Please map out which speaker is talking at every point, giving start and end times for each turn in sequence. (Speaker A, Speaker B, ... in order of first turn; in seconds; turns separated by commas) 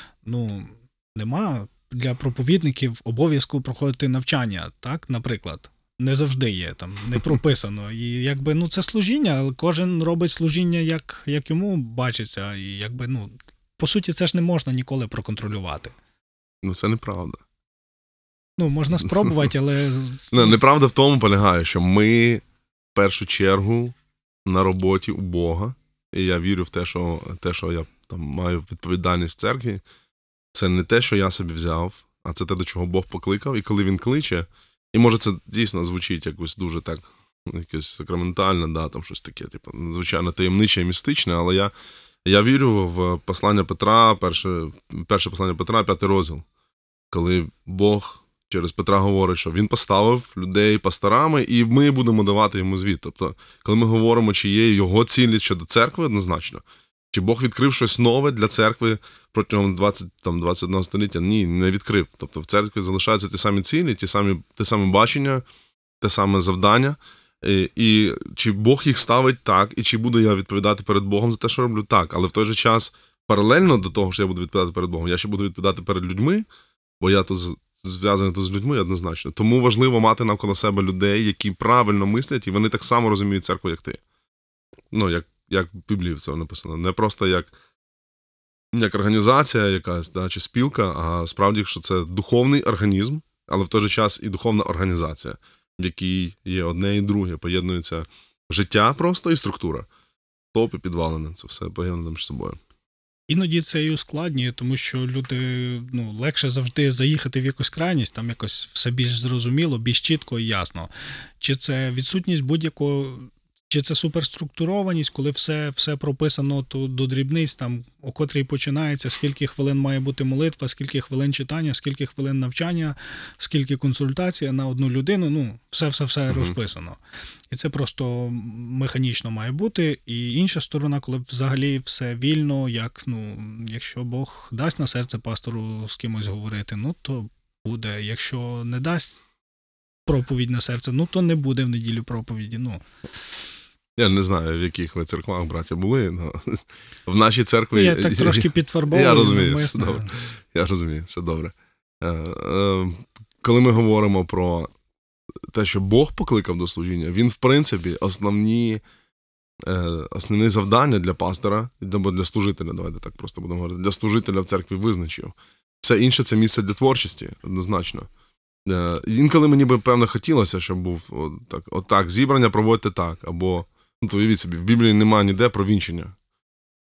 Speaker A: 0.2-15.9, Speaker B: 16.6-17.4, Speaker A: 18.6-20.6, Speaker B: 20.3-22.4, Speaker B: 22.9-29.8, Speaker B: 30.5-41.7, Speaker B: 42.2-46.4, Speaker B: 47.1-65.4, Speaker B: 66.0-76.5, Speaker B: 77.0-84.0, Speaker B: 84.9-87.5, Speaker B: 88.7-99.9, Speaker B: 100.5-102.6, Speaker A: 103.3-127.0, Speaker B: 126.3-126.5, Speaker A: 127.5-139.2, Speaker A: 140.1-142.8, Speaker B: 144.0-154.7, Speaker A: 147.7-150.3, Speaker B: 155.5-158.8, Speaker B: 159.6-168.1, Speaker B: 168.6-176.2